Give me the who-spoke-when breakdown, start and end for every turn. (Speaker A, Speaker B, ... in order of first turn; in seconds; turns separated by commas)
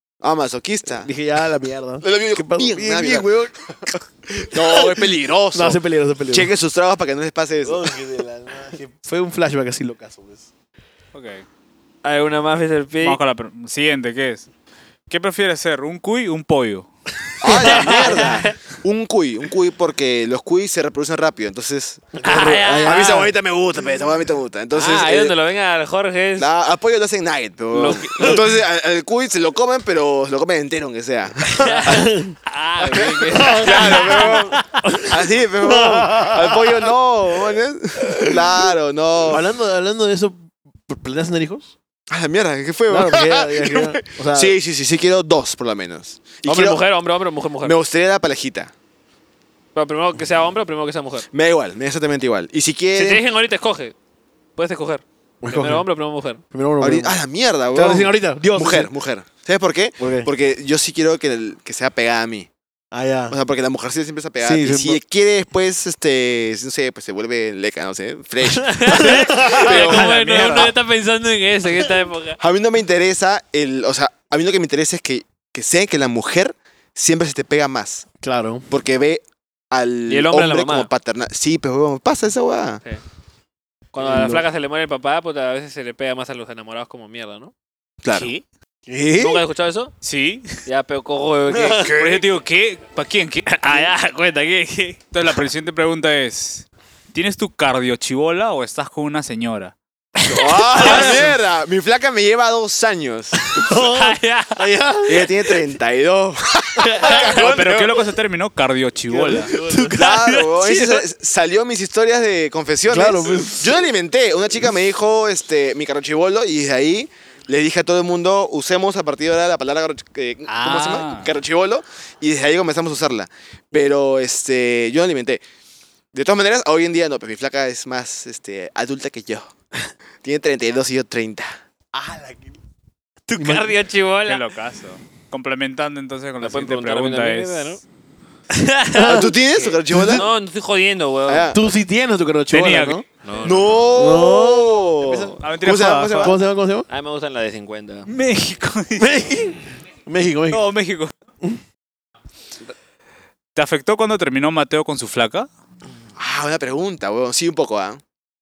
Speaker A: 0.2-1.1, Speaker B: 0.8-3.9, Speaker A: 2.0-3.3, Speaker A: 3.9-8.0, Speaker B: 4.5-6.5, Speaker B: 7.6-10.5, Speaker C: 11.1-11.4, Speaker D: 12.0-13.2, Speaker C: 13.0-14.5, Speaker C: 15.1-16.9, Speaker A: 17.4-22.2, Speaker B: 17.4-18.4, Speaker D: 17.5-18.5, Speaker B: 22.1-23.3, Speaker D: 22.2-23.3, Speaker A: 22.8-25.3, Speaker D: 24.7-26.5, Speaker A: 26.4-32.1, Speaker D: 27.7-28.4, Speaker D: 31.6-35.0, Speaker B: 31.9-32.4, Speaker A: 33.0-39.5, Speaker B: 33.3-35.1, Speaker B: 35.6-36.9, Speaker B: 37.5-38.7, Speaker B: 39.3-41.7, Speaker A: 42.1-46.8, Speaker B: 42.9-44.5, Speaker D: 46.4-47.8, Speaker A: 47.6-48.7, Speaker D: 49.8-51.3, Speaker A: 51.3-53.2, Speaker D: 53.0-54.0, Speaker D: 54.6-56.4, Speaker B: 55.4-55.9, Speaker B: 56.5-57.2, Speaker A: 56.8-62.5, Speaker B: 57.7-58.9, Speaker B: 60.0-60.3, Speaker B: 62.9-63.4, Speaker A: 63.3-70.7, Speaker B: 64.4-65.0, Speaker D: 68.6-72.4, Speaker B: 68.9-69.7, Speaker C: 69.3-70.7, Speaker A: 72.4-78.1, Speaker B: 78.2-78.7, Speaker A: 78.7-82.8, Speaker D: 80.1-80.9, Speaker D: 83.9-87.5, Speaker B: 84.0-84.5, Speaker A: 88.0-88.3, Speaker C: 88.1-88.4, Speaker B: 88.9-89.5, Speaker D: 89.2-89.9, Speaker C: 90.0-90.6, Speaker D: 90.7-91.9, Speaker B: 91.5-91.9, Speaker C: 91.7-93.8, Speaker D: 93.5-95.0, Speaker C: 95.1-99.7, Speaker D: 100.2-101.3, Speaker A: 100.2-103.6, Speaker C: 100.9-101.2, Speaker D: 103.4-104.6, Speaker B: 103.6-105.4, Speaker A: 105.1-108.1, Speaker D: 106.8-107.5, Speaker C: 107.0-109.5, Speaker B: 109.1-110.1, Speaker D: 109.5-111.0, Speaker A: 109.9-125.4, Speaker B: 112.9-113.8, Speaker C: 120.5-121.3, Speaker A: 126.1-129.5, Speaker A: 130.2-131.6, Speaker B: 131.9-132.6, Speaker D: 133.3-134.5, Speaker B: 133.4-133.7, Speaker C: 134.2-137.8, Speaker D: 136.4-137.8, Speaker D: 138.5-141.5, Speaker A: 139.0-140.3, Speaker B: 139.0-139.3, Speaker B: 139.9-140.2, Speaker A: 141.3-141.6, Speaker B: 141.5-143.1, Speaker C: 142.5-143.0, Speaker D: 143.2-143.8, Speaker A: 143.4-146.4, Speaker B: 143.9-145.3, Speaker C: 145.2-146.4, Speaker B: 146.2-146.9, Speaker D: 146.9-148.1, Speaker C: 148.1-149.2, Speaker B: 149.0-150.7, Speaker C: 150.5-151.1, Speaker C: 153.6-155.5, Speaker A: 156.2-158.0